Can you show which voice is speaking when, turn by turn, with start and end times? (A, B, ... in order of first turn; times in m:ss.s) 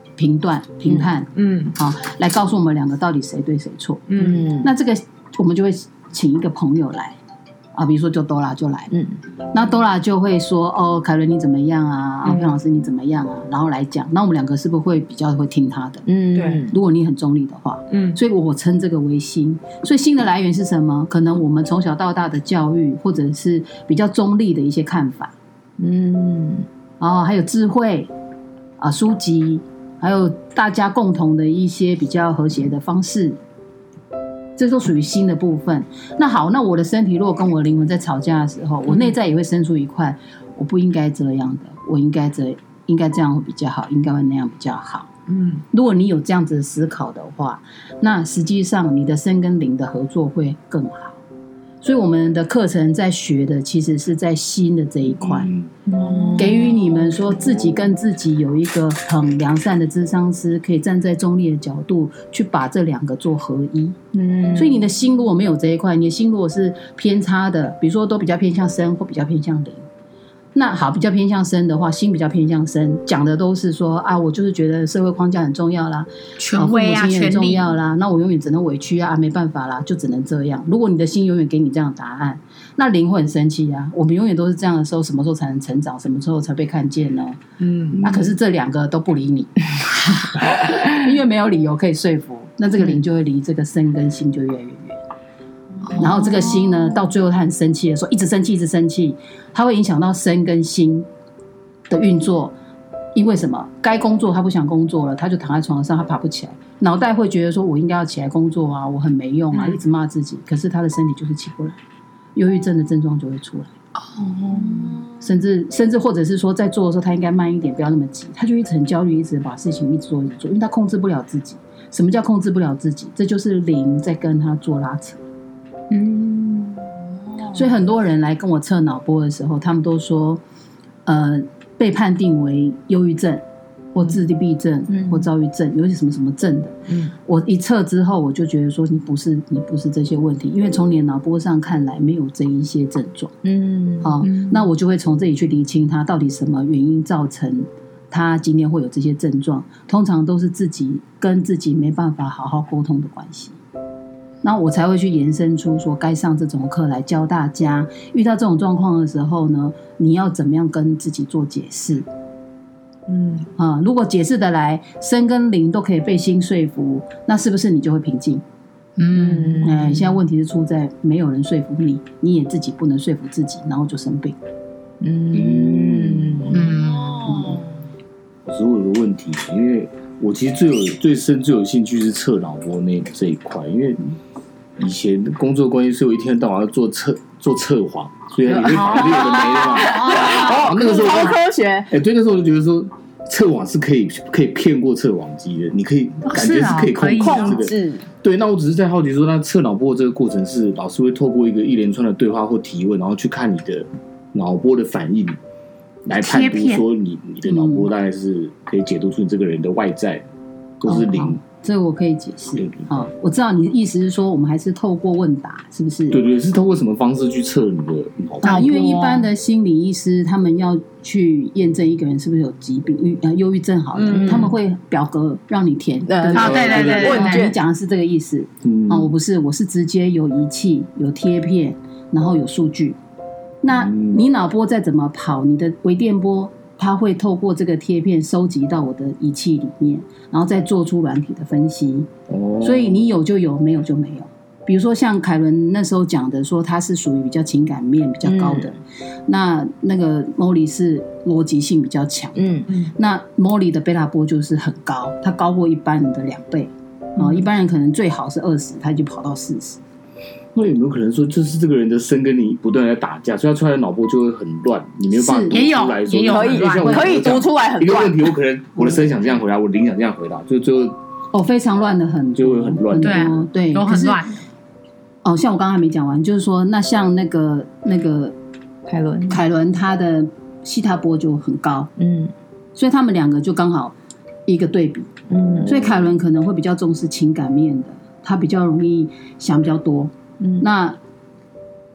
0:00.2-0:07.2 A
0:01.3-0:01.7 B
0:04.1-0:04.5 B
0:04.2-0:04.7 C
0:07.7-0:08.9 A
0:09.5-0:25.3 A
0:12.2-0:12.6 B
0:16.1-0:16.7 C
0:16.3-0:16.7 B
0:17.9-0:18.2 B
0:25.8-0:26.6 C
0:27.0-0:28.1 A
0:28.8-0:33.4 A
0:34.6-0:45.1 A
0:38.9-0:39.1 B
0:45.3-0:45.6 B
0:45.7-0:51.2 A
0:51.8-0:55.5 A
0:55.2-0:55.7 D
0:55.9-0:56.9 B
0:56.3-1:04.0 A
1:04.1-1:04.7 C
1:04.5-1:09.8 A
1:10.5-1:27.4 A
1:16.4-1:17.7 E
1:27.6-1:28.0 B
1:28.0-1:35.0 A
1:35.8-1:36.3 B
1:35.9-1:41.1 A
1:41.9-1:42.5 A
1:43.1-1:51.8 A
1:52.4-1:53.7 A
1:54.0-1:54.8 E
1:54.5-1:55.2 B
1:55.1-2:05.2 A
2:05.9-2:06.9 E
2:07.5-2:10.4 A
2:11.0-2:13.4 A
2:13.9-2:23.4 A
2:14.9-2:15.2 C
2:16.9-2:17.1 B
2:23.4-2:24.1 C
2:24.0-2:33.6 A
2:24.2-2:24.5 E
2:34.4-2:42.0 A
2:43.1-2:43.5 B
2:43.6-2:48.4 A
2:49.0-2:49.6 E
2:49.1-2:50.0 C
2:49.6-2:54.4 A
2:55.0-2:56.5 C
2:55.3-2:56.7 D
2:56.5-2:57.5 E
2:56.6-2:57.7 B
2:58.4-3:04.0 D
3:04.8-3:25.4 D
3:08.6-3:10.8 E
3:08.7-3:11.9 C
3:16.2-3:17.6 E
3:17.2-3:18.0 C
3:26.0-3:30.2 D
3:26.2-3:26.8 E
3:27.5-3:27.9 A
3:30.8-3:31.4 D
3:30.8-3:36.2 A
3:32.6-3:32.9 D
3:36.1-3:38.7 D
3:38.4-3:53.0 A
3:38.4-3:39.3 E
3:44.1-3:44.5 C
3:46.1-3:47.6 C
3:46.3-3:47.5 E
3:46.3-3:47.3 D
3:48.6-3:49.1 D
3:53.6-4:02.1 A
3:53.7-3:54.2 D
4:02.3-4:03.0 D
4:02.6-4:19.8 A
4:08.2-4:08.7 C
4:12.4-4:12.7 C
4:12.7-4:12.9 B
4:20.5-4:31.0 D
4:25.1-4:25.6 A
4:25.5-4:27.0 E
4:26.2-4:28.3 C
4:31.3-4:34.2 A
4:32.4-4:33.4 D
4:33.0-4:34.4 E
4:35.2-4:38.4 A
4:38.9-4:39.4 C
4:39.3-4:41.9 A
4:42.0-4:42.3 C
4:42.7-4:43.9 A
4:44.5-4:45.1 A
4:45.3-4:45.7 C
4:45.5-4:46.1 D
4:45.6-4:51.0 A